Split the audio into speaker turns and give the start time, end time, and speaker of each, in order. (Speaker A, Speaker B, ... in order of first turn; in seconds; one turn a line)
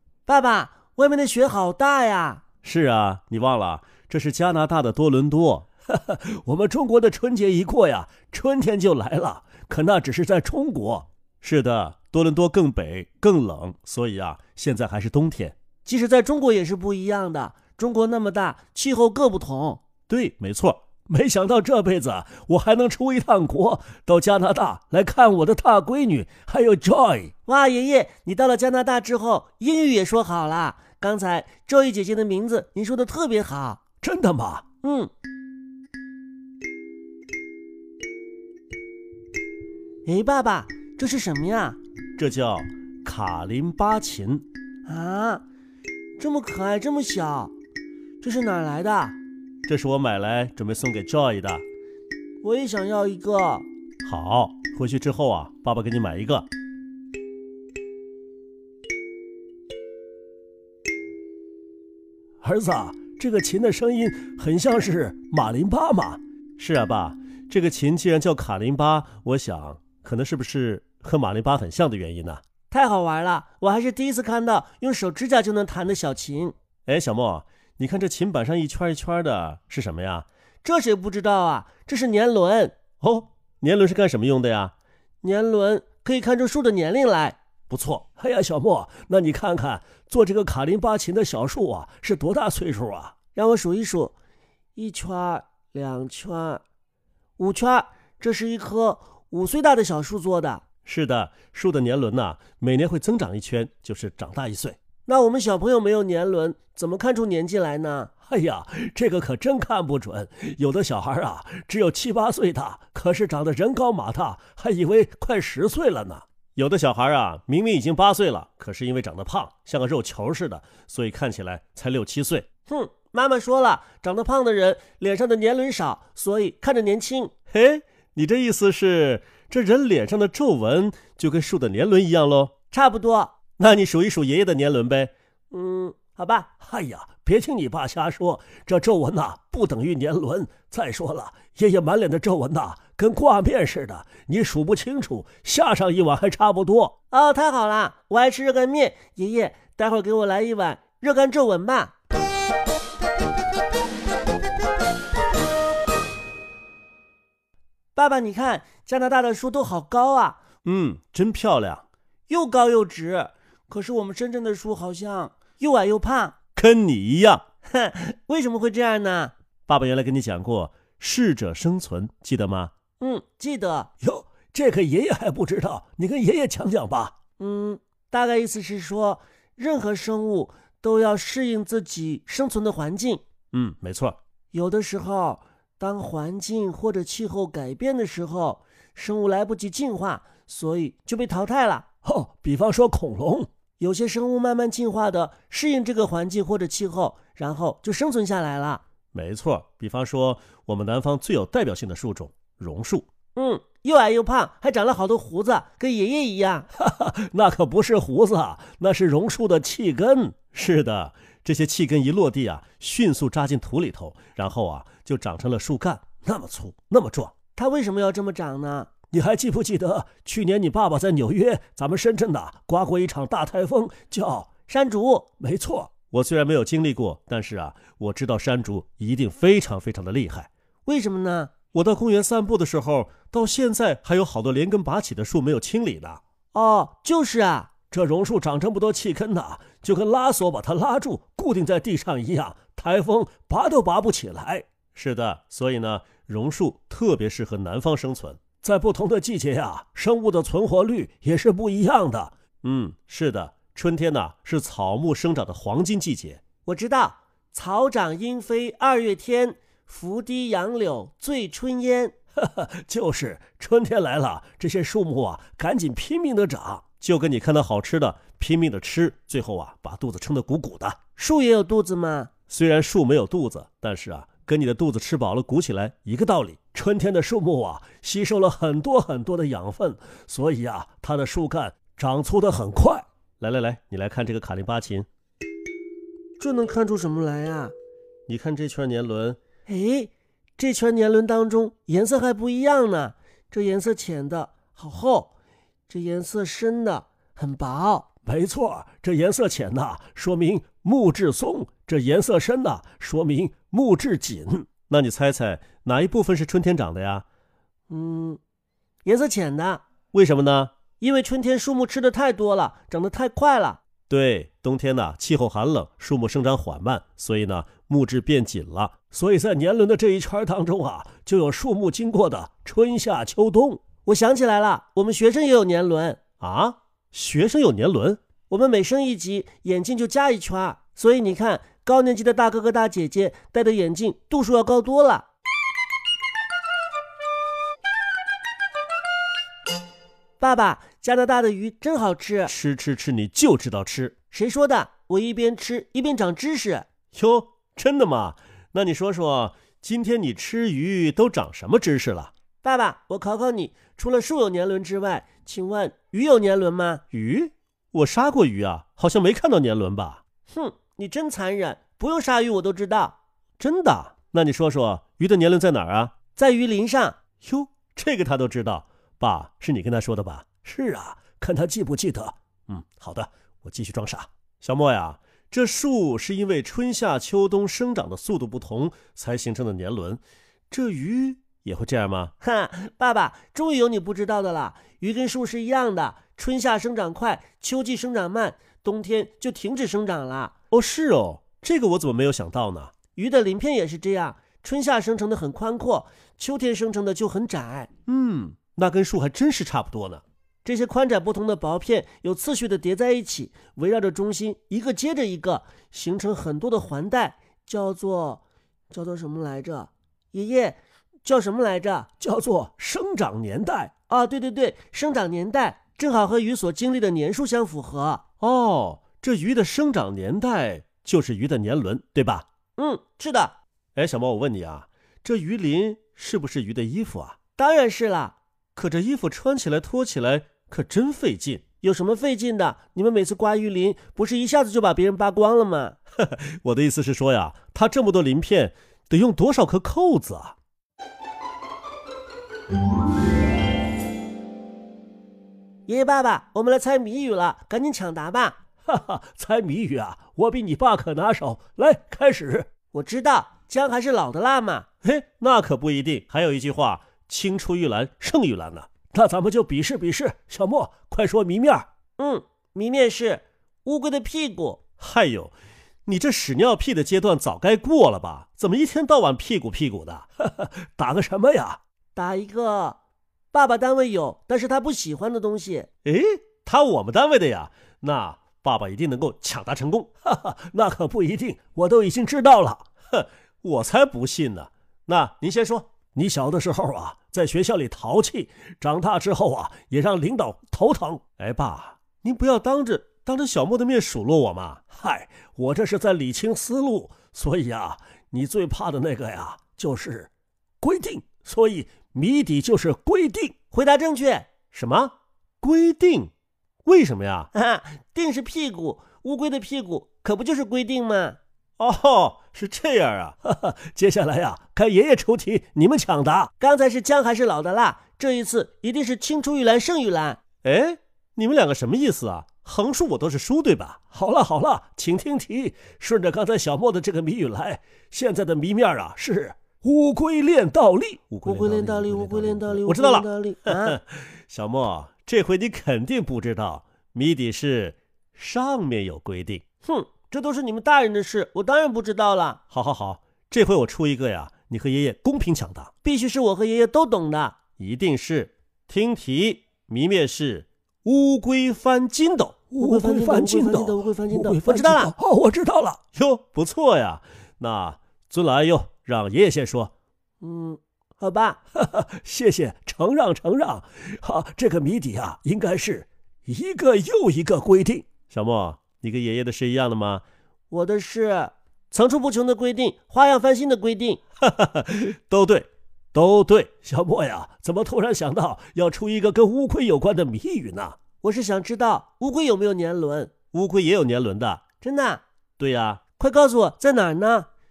Speaker A: 0.2-2.4
Speaker B: 2.6-15.6
Speaker A: 15.8-19.8
Speaker B: 20.1-27.3
Speaker A: 27.4-33.8
Speaker B: 34.0-34.6
Speaker A: 34.8-35.1
Speaker A: 40.0-41.8
Speaker B: 42.2-44.4
Speaker A: 44.9-45.4
Speaker A: 46.2-47.5
Speaker A: 48.2-49.1
Speaker B: 49.6-51.6
Speaker A: 52.4-53.7
Speaker B: 54.0-56.5
Speaker B: 62.4-72.4
Speaker A: 72.7-76.5
Speaker B: 76.8-80.3
Speaker A: 80.6-82.8
Speaker B: 83.0-84.7
Speaker A: 85.2-87.4
Speaker B: 87.7-93.2
Speaker A: 93.3-94.1
Speaker A: 94.8-96.6
Speaker A: 97.4-100.6
Speaker B: 100.8-104.8
Speaker A: 105.0-108.1
Speaker B: 108.2-122.5
Speaker A: 122.7-127.3
Speaker B: 127.5-132.5
Speaker A: 132.7-133.3
Speaker B: 133.6-135.1
Speaker A: 135.5-136.5
Speaker B: 136.6-146.9
Speaker A: 147.1-151.9
Speaker A: 157.9-160.4
Speaker B: 160.6-161.8
Speaker A: 162.3-166.4
Speaker B: 166.6-167.4
Speaker A: 167.7-169.3
Speaker B: 169.7-172.7
Speaker A: 173.0-173.9
Speaker B: 174.0-177.1
Speaker A: 177.4-183.2
Speaker B: 183.5-184.2
Speaker A: 184.5-191.8
Speaker B: 192.0-193.5
Speaker A: 193.8-198.8
Speaker B: 199.1-203.1
Speaker A: 203.3-206.7
Speaker B: 206.8-217.3
Speaker A: 217.5-218.9
Speaker B: 219.1-224.5
Speaker A: 224.7-225.3
Speaker B: 225.4-230.5
Speaker A: 230.8-231.5
Speaker B: 231.7-236.2
Speaker A: 236.5-237.7
Speaker B: 237.9-256.4
Speaker A: 256.6-262.1
Speaker B: 262.4-271.0
Speaker A: 271.2-272.3
Speaker B: 272.5-285.1
Speaker A: 286.4-287.7
Speaker B: 288.3-289.4
Speaker A: 289.6-295.3
Speaker A: 295.9-298.1
Speaker B: 298.2-307.2
Speaker A: 307.9-308.4
Speaker A: 309.0-309.8
Speaker B: 310.1-310.7
Speaker A: 311.0-313.8
Speaker B: 314.1-323.9
Speaker A: 324.0-326.2
Speaker B: 326.4-328.2
Speaker A: 328.5-335.3
Speaker A: 340.4-342.5
Speaker B: 342.5-344.1
Speaker A: 344.3-346.9
Speaker B: 347.1-352.3
Speaker A: 352.6-357.0
Speaker B: 357.1-360.2
Speaker A: 360.5-363.1
Speaker B: 363.6-366.2
Speaker A: 366.3-367.2
Speaker B: 367.4-382.3
Speaker A: 382.4-390.5
Speaker B: 390.7-393.0
Speaker A: 393.1-397.9
Speaker B: 398.1-400.2
Speaker A: 400.6-412.1
Speaker B: 412.2-413.9
Speaker A: 414.1-418.2
Speaker B: 418.4-422.4
Speaker A: 422.8-423.5
Speaker B: 423.9-427.4
Speaker A: 427.6-428.4
Speaker B: 428.7-431.6
Speaker A: 431.8-436.0
Speaker B: 436.2-440.5
Speaker A: 445.9-448.6
Speaker B: 448.9-452.7
Speaker A: 452.9-454.9
Speaker B: 455.0-461.9
Speaker A: 462.2-464.8
Speaker B: 465.0-465.5
Speaker B: 466.1-471.8
Speaker A: 472.1-473.0
Speaker A: 473.5-475.9
Speaker B: 476.0-500.3
Speaker B: 500.8-503.5
Speaker A: 503.7-504.5
Speaker B: 504.7-506.3
Speaker B: 506.8-507.5
Speaker A: 507.5-511.4
Speaker B: 511.8-516.5
Speaker A: 516.6-520.4
Speaker B: 520.6-539.6
Speaker A: 531.4-534.0
Speaker A: 539.8-542.6
Speaker B: 542.7-545.9
Speaker A: 546.0-547.6
Speaker B: 547.8-559.9
Speaker A: 552.8-555.1
Speaker A: 560.4-561.6
Speaker B: 561.7-570.2
Speaker A: 570.7-574.2
Speaker B: 574.4-581.0
Speaker A: 581.2-583.3
Speaker B: 583.5-584.6
Speaker A: 584.8-585.2
Speaker B: 585.6-586.0
Speaker A: 586.2-587.5